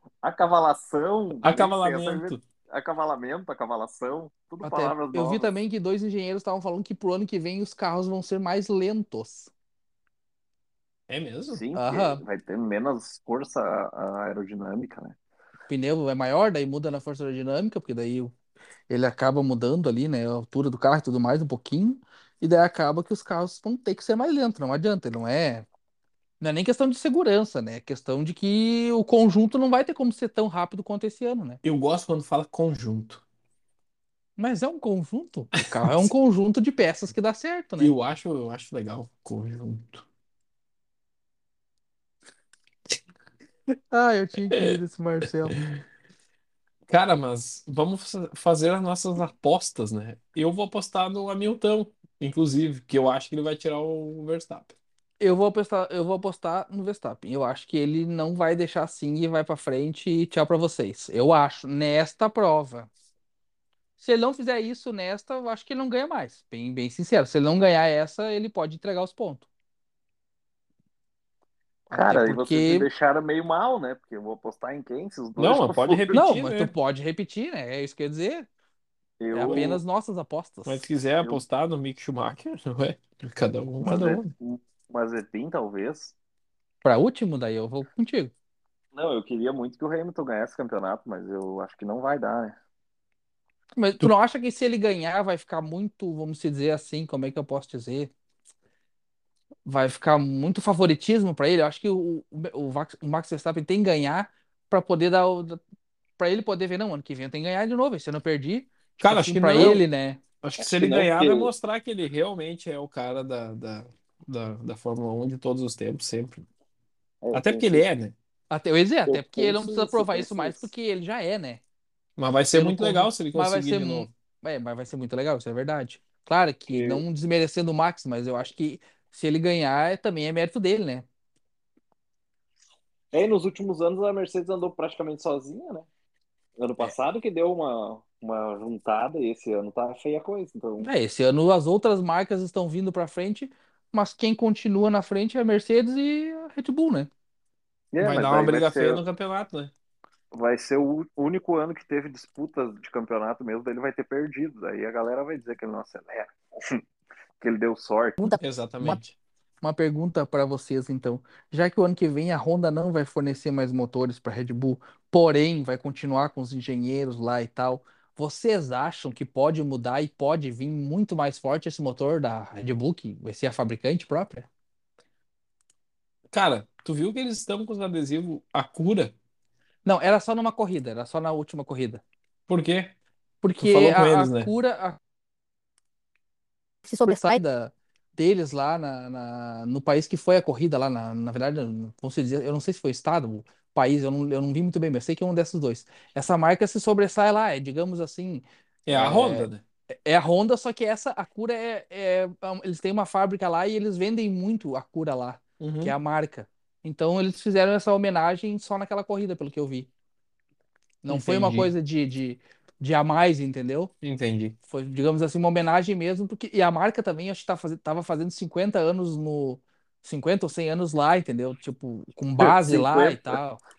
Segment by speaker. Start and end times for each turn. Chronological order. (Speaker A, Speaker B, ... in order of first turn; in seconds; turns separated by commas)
Speaker A: 0.2-5.5, Speaker B: 1.4-2.4, Speaker C: 4.6-9.5, Speaker B: 11.1-11.6, Speaker A: 11.5-15.1, Speaker C: 11.8-12.2, Speaker C: 15.7-18.3, Speaker C: 18.9-25.7, Speaker C: 26.4-31.6, Speaker B: 31.6-33.2, Speaker C: 34.4-37.9, Speaker B: 37.8-40.0, Speaker C: 43.9-45.5, Speaker B: 44.5-44.8, Speaker B: 46.9-54.7, Speaker C: 55.2-62.9, Speaker C: 64.0-69.5, Speaker C: 71.9-72.9, Speaker A: 71.9-76.2, Speaker B: 75.3-76.7, Speaker C: 76.1-78.5, Speaker A: 79.2-79.8, Speaker C: 79.3-80.9, Speaker B: 79.4-79.7, Speaker B: 80.7-84.3, Speaker A: 83.8-86.1, Speaker C: 86.8-88.3, Speaker A: 88.9-92.5, Speaker C: 93.8-98.1, Speaker C: 99.6-105.6, Speaker C: 106.2-110.2, Speaker B: 109.0-109.8, Speaker B: 110.4-116.4, Speaker A: 110.6-111.5, Speaker A: 117.2-117.8, Speaker B: 117.3-118.1, Speaker C: 118.5-121.6, Speaker A: 119.1-120.7, Speaker B: 122.2-124.1, Speaker C: 122.5-131.0, Speaker A: 126.7-127.0, Speaker A: 133.1-135.9, Speaker A: 136.6-140.9, Speaker C: 140.8-147.1, Speaker A: 147.9-149.0, Speaker B: 148.0-149.7, Speaker A: 150.3-156.8, Speaker A: 157.4-158.2, Speaker C: 158.2-159.0, Speaker B: 158.4-159.1, Speaker C: 159.6-174.5, Speaker B: 176.3-179.1, Speaker C: 179.8-182.0, Speaker B: 182.5-182.9, Speaker C: 183.4-185.0, Speaker B: 183.6-184.5, Speaker C: 186.9-199.5, Speaker B: 198.8-199.6, Speaker C: 200.1-209.9, Speaker B: 205.6-205.9, Speaker C: 211.0-213.9, Speaker B: 211.1-211.7, Speaker B: 214.0-214.5, Speaker C: 214.7-223.6, Speaker A: 222.4-223.4